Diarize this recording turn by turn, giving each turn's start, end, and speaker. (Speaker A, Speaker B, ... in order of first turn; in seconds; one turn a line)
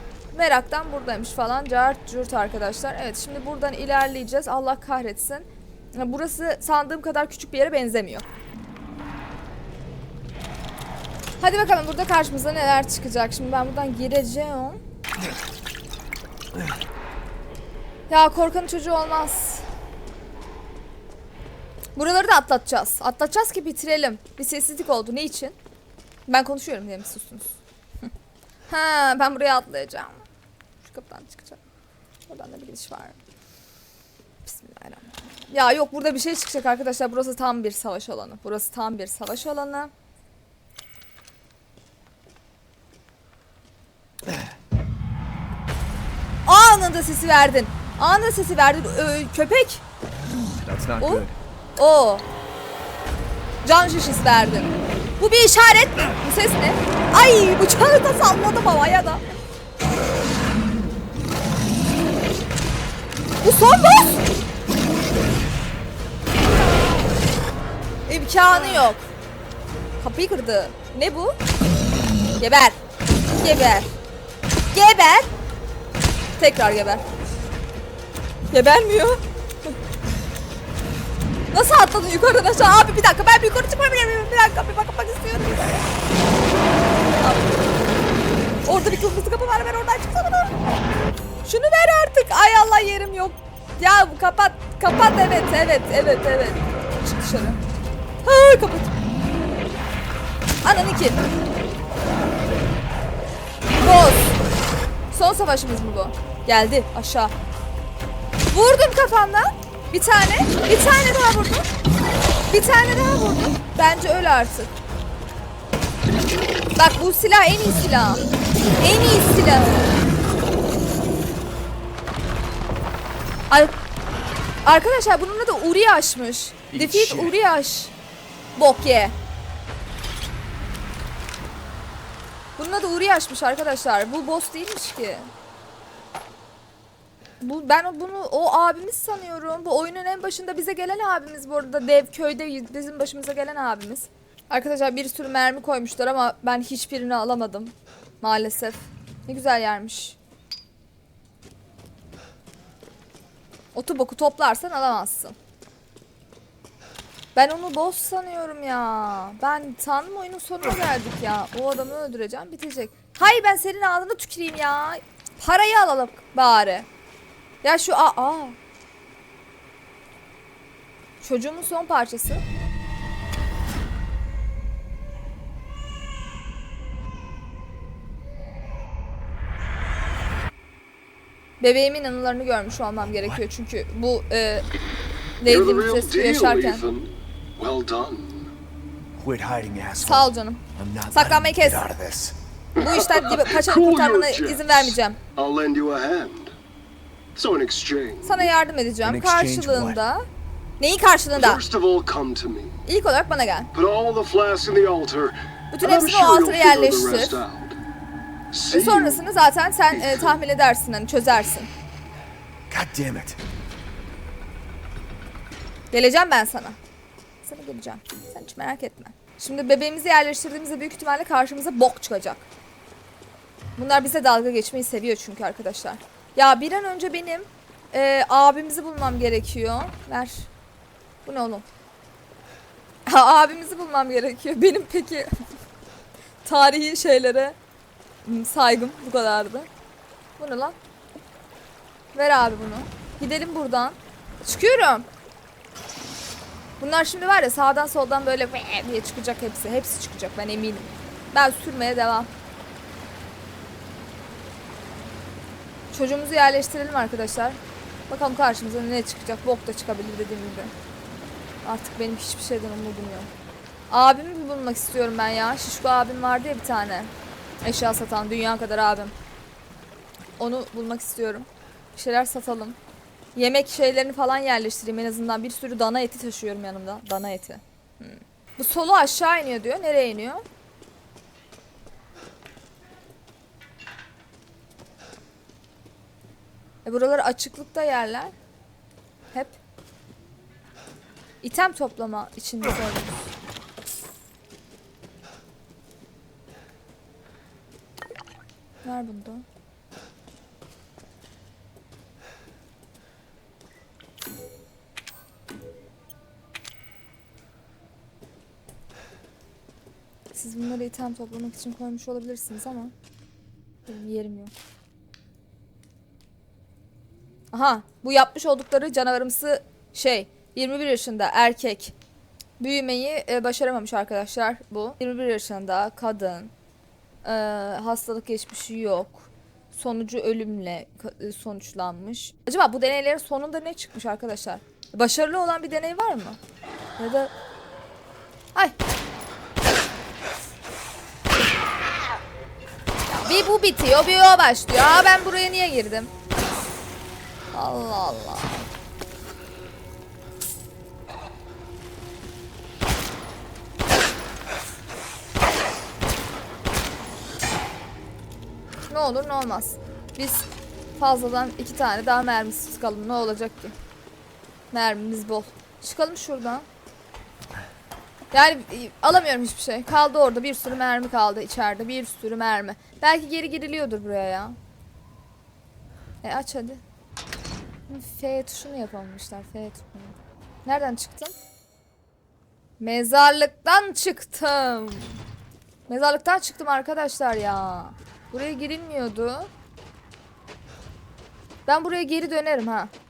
Speaker A: 0.3-8.2
Speaker A: 11.4-14.8
Speaker A: 18.1-19.6
Speaker A: 22.0-25.6
Speaker A: 26.3-27.6
Speaker A: 28.7-30.2
Speaker A: 30.8-31.6
Speaker A: 32.3-33.2
Speaker A: 34.5-39.9
Speaker A: 46.5-49.8
Speaker B: 50.6-51.4
Speaker A: 51.0-51.2
Speaker A: 51.8-52.2
Speaker A: 53.6-59.2
Speaker A: 63.4-64.2
Speaker A: 68.1-69.0
Speaker A: 70.0-71.3
Speaker A: 72.4-72.8
Speaker A: 73.4-73.9
Speaker A: 74.7-75.3
Speaker A: 76.4-77.0
Speaker A: 78.5-79.8
Speaker A: 81.5-85.9
Speaker A: 87.2-87.6
Speaker A: 88.7-90.6
Speaker A: 91.5-97.6
Speaker A: 98.2-98.9
Speaker A: 100.6-101.2
Speaker A: 103.8-104.4
Speaker A: 105.1-107.3
Speaker A: 108.5-111.7
Speaker A: 112.5-114.7
Speaker A: 116.8-118.2
Speaker A: 118.8-119.9
Speaker A: 124.7-127.9
Speaker B: 126.7-127.3
Speaker A: 128.6-129.2
Speaker A: 132.6-135.3
Speaker A: 137.4-150.2
Speaker A: 153.7-155.3
Speaker A: 157.3-166.9
Speaker A: 167.6-168.6
Speaker A: 171.2-172.4
Speaker A: 181.6-184.7
Speaker B: 182.9-183.4
Speaker A: 185.4-186.8
Speaker C: 185.4-188.5
Speaker B: 189.2-192.4
Speaker A: 190.0-191.8
Speaker C: 192.8-196.5
Speaker A: 192.8-195.2
Speaker C: 197.3-198.4
Speaker A: 198.2-200.2
Speaker B: 199.0-200.0
Speaker A: 200.8-201.6
Speaker C: 201.4-202.8
Speaker A: 202.9-203.7
Speaker C: 203.7-207.8
Speaker A: 205.7-207.4
Speaker C: 208.5-209.2
Speaker A: 208.7-211.7
Speaker C: 209.9-210.4
Speaker B: 212.7-213.4
Speaker A: 215.9-216.8
Speaker A: 217.4-222.5
Speaker A: 223.8-230.5
Speaker A: 231.2-231.7
Speaker A: 233.1-235.3
Speaker A: 236.4-237.6
Speaker A: 238.2-239.7
Speaker A: 240.4-240.8
Speaker A: 242.2-245.1
Speaker A: 246.8-252.3
Speaker A: 255.9-257.6
Speaker A: 258.1-260.7
Speaker A: 261.6-263.3
Speaker A: 263.9-267.1
Speaker A: 267.6-269.1
Speaker A: 270.4-272.8
Speaker A: 273.4-280.4
Speaker A: 286.9-288.3
Speaker A: 291.4-293.3
Speaker A: 298.8-299.4
Speaker A: 310.3-312.9
Speaker A: 313.9-314.5
Speaker A: 317.5-321.9
Speaker A: 322.6-326.5
Speaker A: 327.2-336.4
Speaker A: 337.0-337.3
Speaker A: 343.1-346.1
Speaker A: 347.5-348.7
Speaker A: 358.9-363.7
Speaker A: 364.7-366.6
Speaker A: 368.3-374.6
Speaker A: 376.2-376.8
Speaker A: 377.9-381.4
Speaker A: 382.8-385.2
Speaker A: 385.9-389.5
Speaker A: 391.7-392.9